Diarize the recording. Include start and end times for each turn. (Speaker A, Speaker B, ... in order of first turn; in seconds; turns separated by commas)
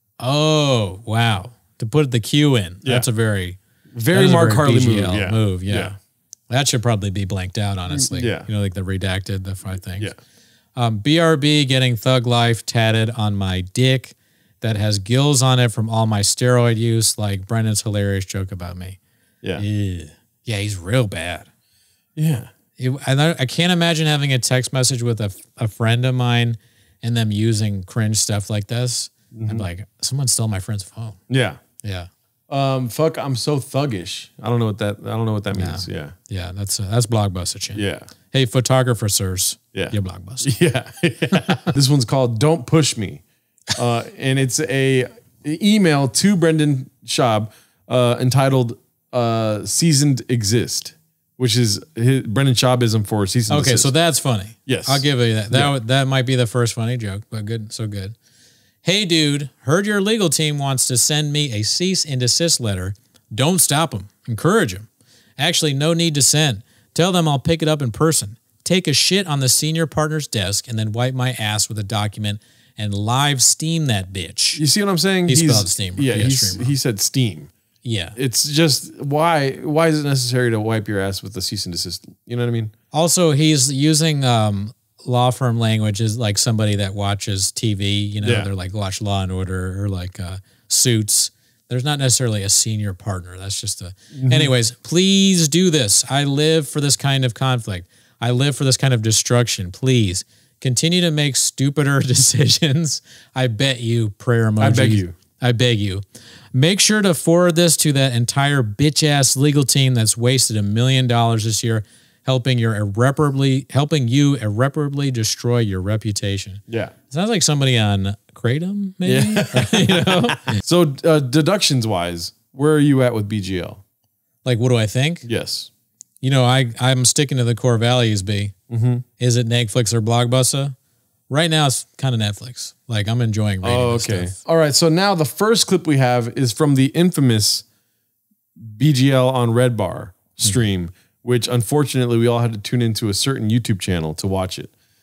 Speaker A: 0.2-3.6, Speaker B: 3.9-5.9, Speaker A: 4.1-5.9, Speaker A: 6.5-10.1, Speaker B: 7.9-8.5, Speaker A: 10.8-19.0, Speaker A: 19.6-21.4, Speaker B: 22.1-22.5, Speaker A: 22.8-31.2, Speaker B: 29.3-29.6, Speaker B: 31.3-31.6, Speaker A: 31.8-32.1, Speaker B: 32.5-36.1, Speaker A: 35.5-40.5, Speaker B: 37.7-38.0, Speaker B: 39.7-53.9, Speaker A: 53.5-58.1, Speaker B: 54.7-55.7, Speaker A: 58.8-64.9, Speaker A: 65.4-74.6, Speaker B: 74.5-77.5, Speaker A: 75.3-76.7, Speaker A: 77.8-78.2, Speaker B: 78.2-82.7, Speaker A: 82.9-120.6, Speaker B: 88.2-88.5, Speaker B: 94.1-94.5, Speaker B: 104.6-105.1, Speaker B: 119.0-123.8, Speaker A: 124.4-125.3, Speaker B: 125.2-125.7, Speaker A: 126.2-128.5, Speaker B: 128.7-129.0, Speaker A: 129.2-130.7, Speaker A: 131.3-134.3, Speaker B: 133.6-137.6, Speaker B: 138.6-144.7